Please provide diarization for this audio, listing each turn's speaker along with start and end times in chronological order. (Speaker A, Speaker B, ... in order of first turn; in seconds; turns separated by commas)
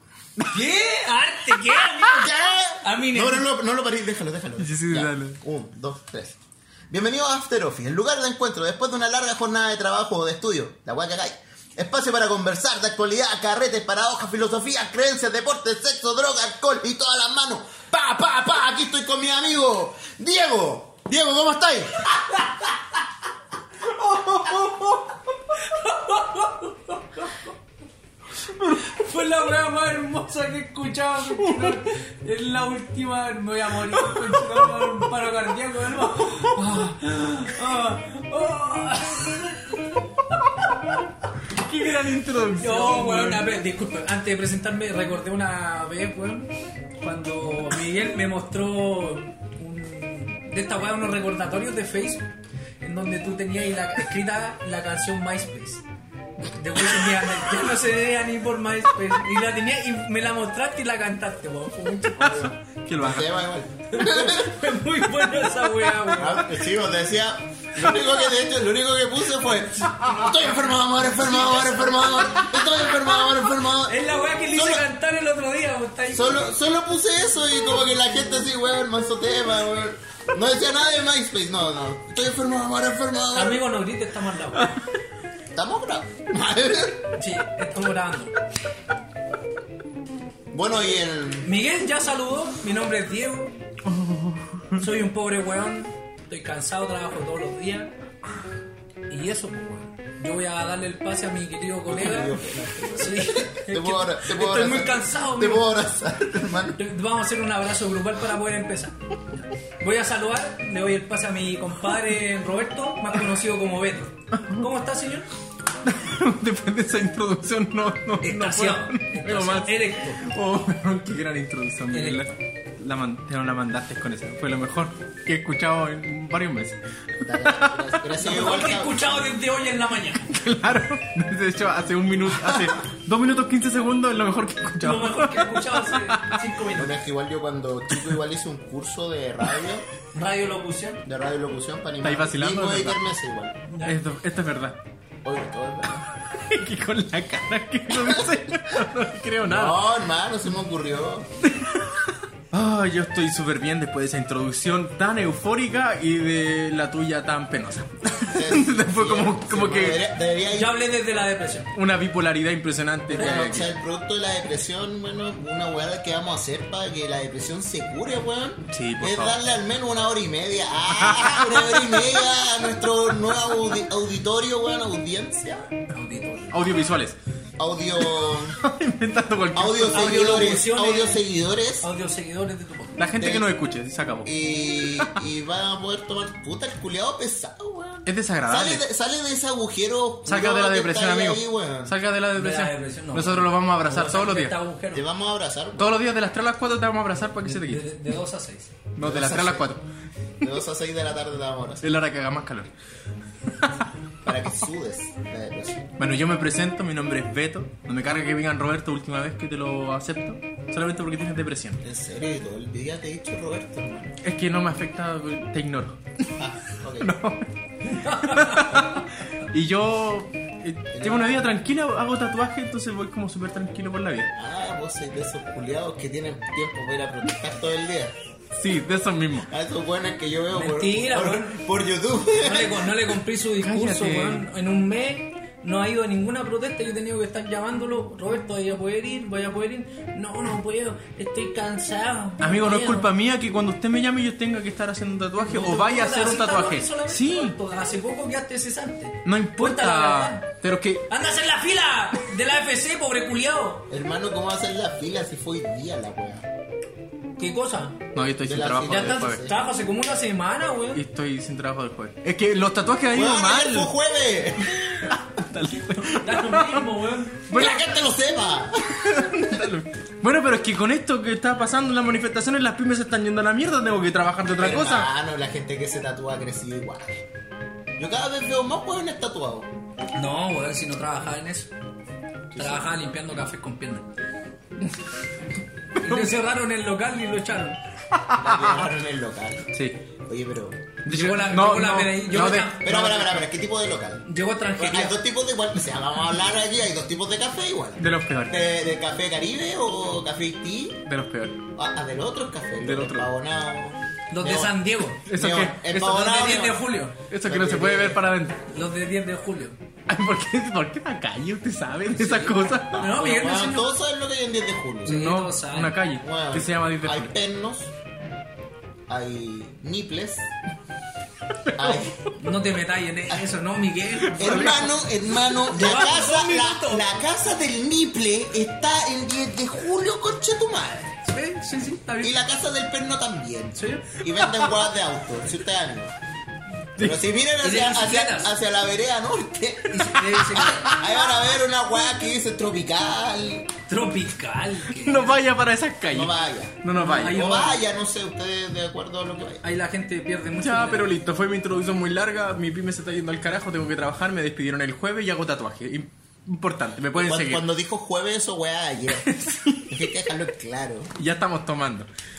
Speaker A: 0.5-3.5, Speaker B: 1.8-6.4, Speaker C: 4.6-5.4, Speaker B: 6.9-22.3, Speaker C: 24.0-24.9, Speaker A: 25.6-27.5, Speaker A: 28.7-40.0, Speaker C: 41.5-43.6, Speaker A: 42.6-46.5, Speaker A: 47.0-52.3, Speaker A: 52.8-55.8, Speaker A: 56.5-62.5, Speaker C: 62.3-63.3, Speaker B: 63.0-64.6, Speaker A: 63.9-66.6, Speaker B: 66.2-74.9, Speaker A: 71.2-72.2, Speaker A: 73.8-76.5, Speaker B: 76.1-83.7, Speaker A: 83.3-84.7, Speaker B: 85.5-87.1, Speaker A: 87.2-88.3, Speaker B: 90.5-91.5, Speaker A: 91.5-93.5, Speaker C: 93.9-94.8, Speaker A: 94.8-97.9, Speaker A: 99.1-102.4, Speaker B: 101.9-106.8, Speaker A: 103.0-105.7, Speaker A: 106.8-109.0, Speaker A: 109.8-115.3, Speaker C: 115.8-126.8, Speaker A: 118.2-120.2, Speaker A: 121.9-122.2, Speaker B: 127.2-129.0, Speaker C: 127.3-127.8, Speaker A: 128.2-130.3, Speaker C: 130.3-136.4, Speaker A: 134.8-136.9, Speaker B: 136.8-139.9, Speaker A: 140.1-141.0, Speaker B: 141.1-143.6, Speaker C: 142.0-143.1, Speaker A: 143.7-144.0, Speaker C: 143.8-144.8, Speaker B: 145.2-146.0, Speaker C: 146.3-149.8, Speaker B: 149.4-151.3, Speaker C: 151.5-160.0, Speaker B: 158.3-160.8, Speaker A: 160.5-161.7, Speaker C: 161.7-163.7, Speaker B: 163.1-175.7, Speaker A: 163.2-163.5, Speaker C: 168.7-169.4, Speaker C: 171.0-172.1, Speaker A: 175.9-176.7, Speaker C: 176.5-177.2, Speaker B: 177.6-178.6, Speaker C: 178.0-180.6, Speaker B: 179.5-181.9, Speaker A: 179.8-181.3, Speaker A: 181.8-183.0, Speaker C: 183.0-184.3, Speaker B: 183.2-183.5, Speaker B: 184.2-191.9, Speaker C: 188.1-188.8, Speaker C: 190.2-194.6, Speaker A: 192.3-195.1, Speaker B: 194.9-195.9, Speaker C: 195.8-197.8, Speaker A: 197.4-198.7, Speaker C: 199.0-199.8, Speaker B: 199.0-199.8, Speaker B: 200.4-201.8, Speaker C: 201.8-202.7, Speaker B: 204.2-205.9, Speaker C: 206.0-211.8, Speaker B: 211.8-214.2, Speaker C: 214.2-216.3, Speaker B: 216.4-217.1, Speaker C: 217.0-224.3, Speaker A: 217.9-218.8, Speaker B: 220.9-221.4, Speaker B: 224.3-228.1, Speaker C: 228.6-229.5, Speaker B: 229.5-233.1, Speaker A: 230.5-231.6, Speaker A: 232.4-243.1, Speaker C: 233.6-234.5, Speaker C: 242.4-247.6, Speaker A: 245.4-250.5, Speaker C: 249.2-251.1, Speaker A: 251.1-253.9, Speaker B: 253.9-256.5, Speaker A: 257.4-258.0, Speaker C: 258.1-259.4, Speaker B: 258.4-259.6, Speaker A: 258.9-261.0, Speaker C: 260.9-263.9, Speaker B: 263.1-264.8, Speaker C: 264.7-268.0, Speaker A: 266.1-267.5, Speaker B: 267.5-269.7, Speaker C: 268.9-275.1, Speaker B: 274.6-277.2, Speaker B: 278.0-279.7, Speaker A: 280.1-281.7, Speaker B: 282.5-282.9, Speaker A: 282.6-284.1, Speaker A: 286.0-287.8, Speaker C: 286.0-286.3, Speaker C: 288.1-288.9, Speaker B: 288.4-289.7, Speaker C: 289.7-290.0, Speaker B: 290.3-290.8, Speaker C: 291.1-292.8, Speaker A: 291.1-293.5, Speaker B: 292.8-294.2, Speaker A: 294.3-295.1, Speaker B: 294.8-301.0, Speaker C: 298.0-298.7, Speaker C: 301.1-301.6, Speaker B: 301.8-306.9, Speaker C: 302.8-303.3, Speaker A: 304.3-305.3, Speaker C: 305.3-305.9, Speaker A: 305.9-307.2, Speaker C: 307.2-308.6, Speaker B: 307.5-308.2, Speaker A: 308.7-309.8, Speaker C: 310.1-313.0, Speaker A: 312.1-313.9, Speaker B: 312.9-315.2, Speaker A: 315.1-316.0, Speaker C: 315.1-317.3, Speaker B: 316.2-317.9, Speaker B: 319.1-320.5, Speaker B: 321.8-322.2, Speaker A: 322.3-324.9, Speaker C: 324.4-324.9, Speaker B: 324.4-331.2, Speaker A: 325.6-327.1, Speaker A: 331.2-332.4, Speaker B: 332.2-336.1, Speaker A: 333.8-334.7, Speaker C: 337.0-337.2, Speaker B: 337.0-343.8, Speaker A: 337.6-338.6, Speaker A: 339.9-341.2, Speaker A: 343.9-345.4, Speaker C: 344.9-347.4, Speaker B: 346.1-349.6, Speaker A: 347.0-347.8, Speaker A: 349.6-351.1, Speaker C: 350.6-357.6, Speaker B: 357.2-359.4, Speaker C: 359.2-360.0, Speaker B: 359.9-361.1, Speaker C: 361.2-362.1